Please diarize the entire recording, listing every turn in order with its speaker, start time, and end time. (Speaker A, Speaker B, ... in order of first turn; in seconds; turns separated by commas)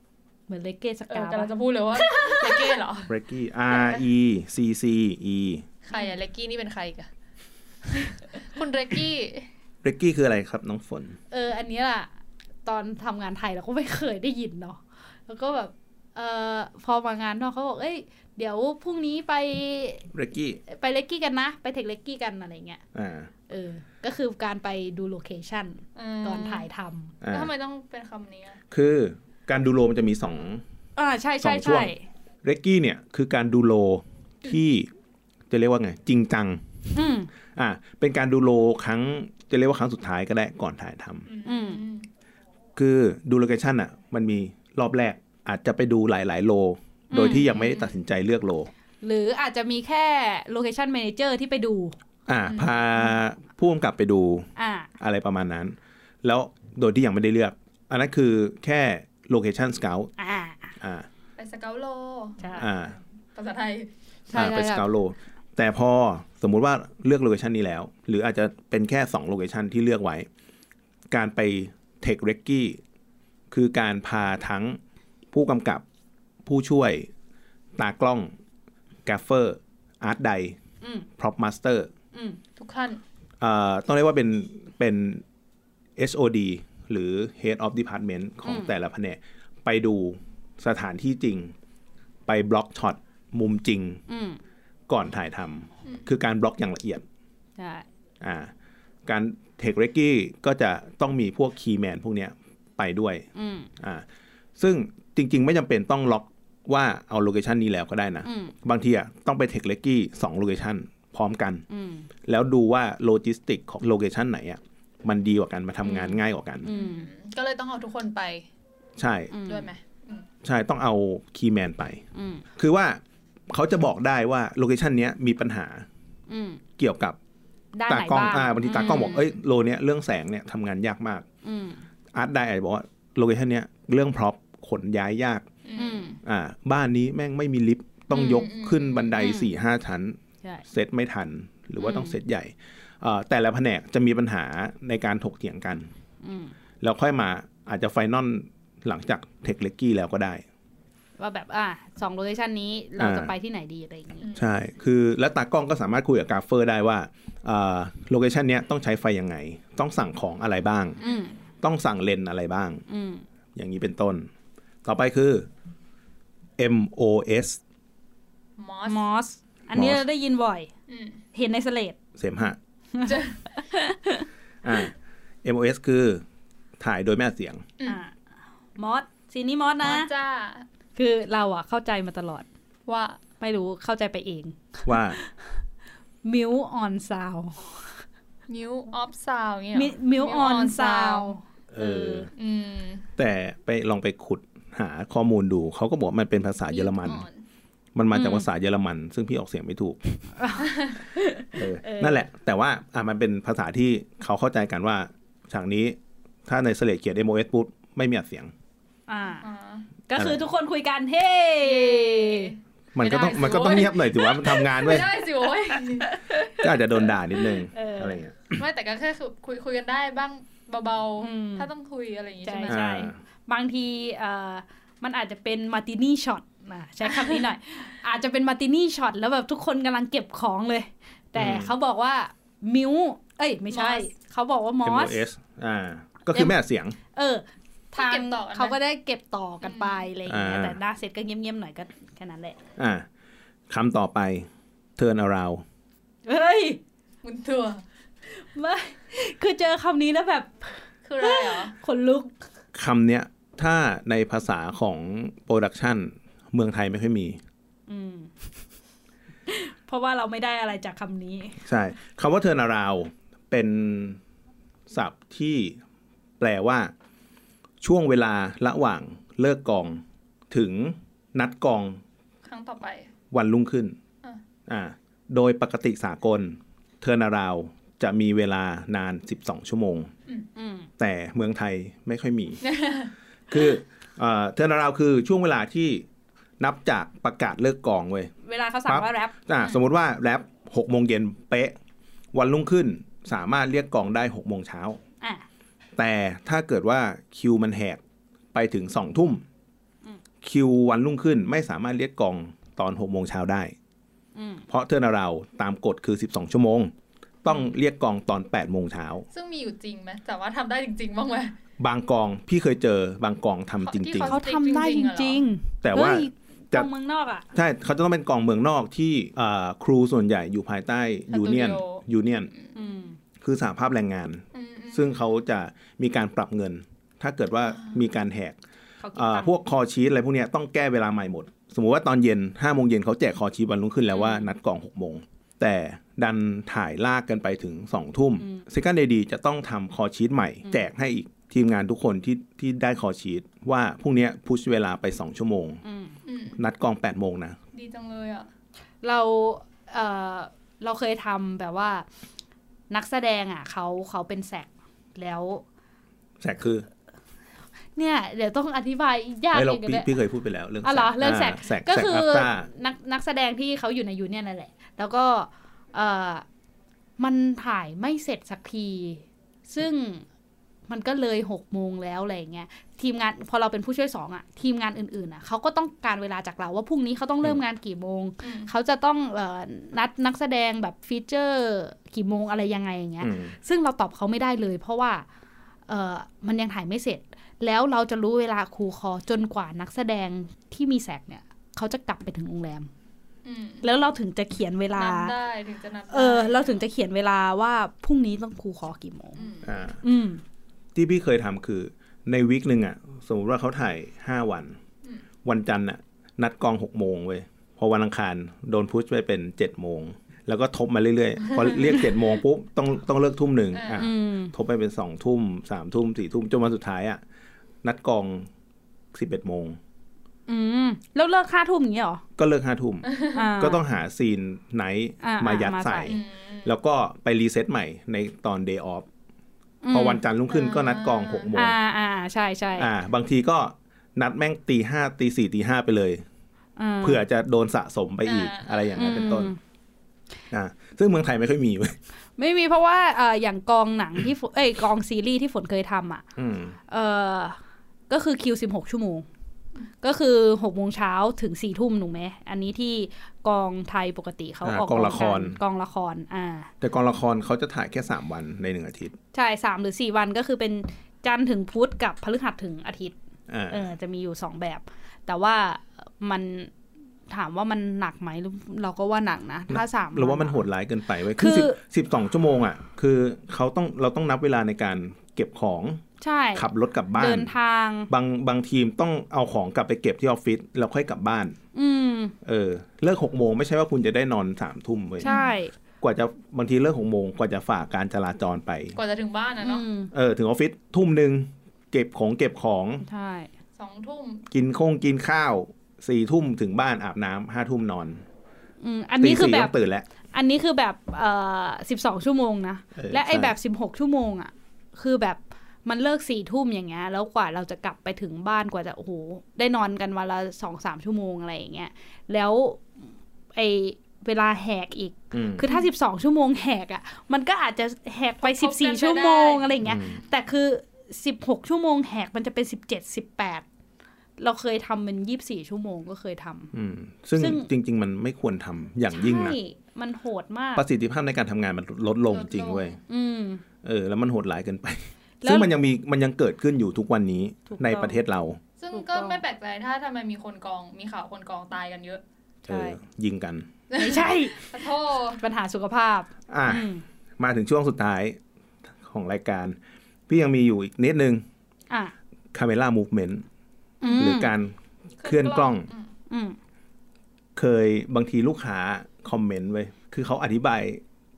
Speaker A: 0.5-2.8, Speaker B: 1.1-3.1, Speaker C: 3.1-5.7, Speaker B: 5.9-7.1, Speaker B: 7.8-9.5, Speaker C: 9.8-11.2, Speaker A: 11.3-12.1, Speaker A: 12.6-20.1, Speaker C: 20.1-20.6, Speaker A: 20.7-22.8, Speaker C: 22.9-23.3, Speaker A: 23.5-27.1, Speaker B: 25.9-26.6, Speaker C: 27.2-27.5, Speaker B: 27.3-28.6, Speaker C: 28.7-30.6, Speaker A: 31.0-32.0, Speaker C: 31.4-31.9, Speaker C: 32.4-34.9, Speaker C: 35.5-36.7, Speaker A: 36.9-37.3, Speaker C: 37.5-41.3, Speaker B: 41.3-42.1, Speaker A: 41.4-41.8, Speaker C: 42.8-48.7, Speaker A: 47.1-47.5, Speaker B: 47.5-47.9, Speaker A: 49.0-52.0, Speaker C: 52.2-54.5, Speaker A: 54.6-54.9, Speaker C: 55.0-60.1, Speaker A: 60.2-60.7, Speaker C: 60.8-61.1, Speaker B: 61.4-63.9, Speaker A: 62.4-62.6, Speaker C: 62.6-63.0, Speaker A: 64.3-64.9, Speaker C: 64.3-70.3, Speaker C: 71.1-72.8, Speaker C: 73.5-74.8, Speaker C: 75.3-75.8, Speaker C: 76.4-77.1, Speaker C: 77.8-78.3, Speaker C: 79.0-80.6, Speaker C: 81.2-81.9, Speaker A: 82.1-82.4, Speaker B: 82.6-83.0, Speaker C: 83.4-85.2, Speaker C: 86.0-91.5, Speaker A: 88.5-88.7, Speaker C: 92.2-94.0, Speaker A: 94.1-94.4, Speaker C: 94.9-97.0, Speaker A: 97.6-97.8, Speaker C: 98.2-98.5, Speaker C: 99.0-103.3, Speaker A: 103.3-103.7, Speaker C: 103.8-104.0, Speaker C: 104.6-111.6, Speaker A: 108.2-108.5, Speaker A: 111.7-112.1, Speaker C: 112.2-116.7, Speaker A: 115.8-117.1, Speaker B: 116.7-118.5, Speaker C: 119.0-119.3, Speaker A: 119.3-119.7, Speaker B: 119.5-120.2, Speaker C: 120.4-122.0, Speaker A: 122.1-122.4, Speaker C: 122.5-125.9, Speaker A: 126.3-126.6, Speaker C: 126.8-127.2, Speaker A: 127.7-129.3, Speaker C: 127.9-131.2, Speaker A: 131.4-131.8, Speaker C: 132.1-135.5, Speaker B: 135.6-136.1, Speaker A: 135.8-136.2, Speaker C: 136.2-145.9, Speaker B: 138.1-139.3, Speaker A: 139.2-139.5, Speaker A: 141.8-142.2, Speaker A: 146.2-146.5, Speaker C: 146.8-150.4, Speaker A: 151.2-154.3, Speaker C: 153.0-153.3, Speaker C: 154.3-161.0, Speaker B: 161.0-161.3, Speaker A: 161.0-161.3, Speaker C: 161.6-162.8, Speaker A: 162.9-163.2, Speaker C: 163.5-164.3, Speaker C: 164.8-165.5, Speaker C: 166.6-167.6, Speaker B: 168.6-169.1, Speaker A: 168.9-170.7, Speaker C: 169.7-170.0, Speaker B: 170.9-171.2, Speaker A: 171.3-171.9, Speaker C: 172.2-172.6, Speaker A: 172.9-174.3, Speaker B: 173.0-173.3, Speaker C: 174.6-176.2, Speaker C: 176.8-177.7, Speaker A: 177.8-178.1, Speaker A: 178.8-180.1, Speaker B: 179.8-180.7, Speaker A: 180.9-182.4, Speaker B: 182.9-183.2, Speaker A: 183.4-185.3, Speaker C: 184.8-185.2, Speaker A: 186.2-188.0, Speaker B: 188.5-191.3, Speaker A: 189.7-192.3, Speaker C: 191.7-192.3, Speaker B: 192.3-193.1, Speaker C: 193.2-197.2, Speaker B: 196.7-197.4, Speaker C: 197.9-200.2, Speaker A: 198.1-198.4, Speaker A: 200.4-202.3, Speaker B: 200.7-200.9, Speaker C: 201.5-208.5, Speaker A: 209.1-209.4, Speaker B: 209.4-209.9, Speaker A: 210.1-212.5, Speaker C: 210.1-210.4, Speaker B: 211.6-216.2, Speaker C: 212.9-215.1, Speaker A: 213.9-214.6, Speaker A: 215.7-218.2, Speaker C: 216.6-218.6, Speaker B: 218.5-222.8, Speaker A: 221.2-221.7, Speaker A: 222.4-235.2, Speaker C: 222.7-223.2, Speaker B: 227.2-227.4, Speaker C: 231.3-231.7, Speaker B: 233.7-234.1, Speaker C: 234.8-236.9, Speaker A: 237.1-242.6, Speaker B: 237.9-238.8, Speaker B: 239.6-240.0, Speaker C: 240.2-240.8, Speaker C: 242.8-243.1, Speaker C: 243.7-245.6, Speaker A: 246.2-246.8, Speaker B: 247.2-247.8, Speaker A: 248.2-252.3, Speaker B: 251.0-251.7, Speaker C: 252.7-257.4, Speaker A: 257.9-258.3, Speaker A: 259.4-261.6, Speaker C: 261.6-264.2, Speaker C: 264.9-265.8, Speaker C: 266.4-266.9, Speaker C: 267.8-272.0, Speaker B: 272.4-273.1, Speaker C: 273.3-274.0, Speaker C: 274.6-280.1, Speaker A: 280.5-280.9, Speaker C: 281.0-282.6, Speaker B: 282.6-283.1, Speaker C: 283.5-286.1, Speaker C: 286.6-288.3, Speaker A: 288.4-289.3, Speaker C: 288.9-291.8, Speaker C: 292.3-295.0, Speaker A: 295.2-295.4, Speaker C: 295.9-298.0, Speaker C: 298.5-299.4, Speaker C: 300.4-303.7, Speaker A: 304.3-304.6, Speaker C: 304.7-306.9, Speaker C: 307.4-309.3, Speaker B: 309.3-311.6, Speaker C: 311.8-314.4, Speaker B: 313.8-315.5, Speaker A: 314.2-317.5, Speaker C: 315.8-316.9, Speaker C: 317.5-322.5, Speaker B: 321.3-322.7, Speaker A: 322.7-323.2, Speaker C: 323.4-328.6, Speaker B: 324.5-325.2, Speaker A: 329.0-329.5, Speaker C: 329.1-345.8, Speaker A: 338.4-338.6, Speaker A: 345.8-346.1, Speaker B: 346.2-346.6, Speaker C: 346.6-347.6, Speaker B: 347.7-348.5, Speaker A: 349.0-352.1, Speaker A: 352.9-355.6, Speaker C: 356.4-356.9, Speaker A: 357.9-360.1, Speaker C: 359.5-362.7, Speaker A: 360.8-366.4, Speaker A: 367.2-370.2, Speaker A: 370.9-385.2, Speaker B: 378.4-378.7, Speaker C: 383.2-383.5, Speaker A: 385.9-392.9, Speaker B: 393.4-393.8, Speaker A: 393.8-395.3, Speaker B: 394.9-396.8, Speaker A: 396.1-399.4, Speaker B: 399.4-399.9, Speaker C: 399.6-400.0, Speaker A: 400.0-400.4, Speaker C: 400.9-404.8, Speaker C: 405.4-417.2, Speaker B: 411.5-411.9, Speaker B: 413.7-414.1, Speaker A: 414.0-414.5, Speaker C: 417.8-418.5, Speaker C: 419.1-419.8, Speaker A: 420.5-422.2, Speaker C: 422.4-429.1, Speaker B: 423.1-423.4, Speaker A: 423.3-423.8, Speaker A: 425.2-426.2, Speaker B: 426.1-426.7, Speaker A: 429.8-430.2, Speaker C: 429.9-431.8, Speaker B: 430.5-431.5, Speaker A: 431.5-432.9, Speaker C: 432.8-436.2, Speaker A: 436.8-437.2, Speaker C: 437.0-439.5, Speaker B: 438.2-438.9, Speaker A: 438.9-439.6, Speaker C: 440.5-441.9, Speaker A: 442.4-446.2, Speaker C: 446.4-446.8, Speaker A: 446.9-449.3, Speaker A: 450.0-456.7, Speaker C: 454.6-455.6, Speaker C: 456.8-459.1, Speaker A: 459.3-463.1, Speaker C: 463.5-463.9, Speaker A: 463.7-466.7, Speaker A: 467.3-470.6, Speaker C: 469.7-476.0, Speaker A: 471.4-471.8, Speaker A: 476.2-478.1, Speaker C: 476.5-477.5, Speaker C: 478.1-481.6, Speaker A: 481.7-482.3, Speaker C: 482.4-485.3, Speaker A: 485.2-485.7, Speaker B: 485.2-485.5, Speaker C: 486.0-489.0, Speaker B: 488.9-489.8, Speaker A: 489.6-490.1, Speaker C: 490.1-493.0, Speaker A: 493.0-493.5, Speaker B: 493.8-494.5, Speaker C: 494.5-498.2, Speaker A: 498.8-499.7, Speaker C: 499.2-500.1, Speaker A: 500.3-512.9, Speaker C: 502.9-503.5, Speaker A: 513.5-523.6, Speaker C: 515.3-515.6, Speaker B: 518.4-519.7, Speaker C: 519.8-520.2, Speaker A: 524.4-526.7, Speaker C: 526.7-529.6, Speaker A: 527.4-527.7, Speaker A: 529.1-530.9, Speaker C: 530.8-533.0, Speaker B: 532.3-533.0, Speaker A: 533.1-533.6, Speaker C: 533.8-538.6, Speaker A: 535.4-535.7, Speaker A: 537.7-538.2, Speaker B: 538.8-542.2, Speaker A: 538.9-539.4, Speaker A: 542.6-543.0, Speaker C: 542.7-543.7, Speaker B: 543.9-545.4, Speaker A: 544.0-544.8, Speaker A: 545.4-547.0, Speaker C: 546.5-548.4, Speaker C: 549.0-549.8, Speaker C: 550.3-551.4, Speaker C: 552.5-553.4, Speaker A: 554.0-554.5, Speaker C: 554.1-555.9, Speaker B: 555.2-556.1, Speaker A: 556.3-556.6, Speaker C: 557.5-561.0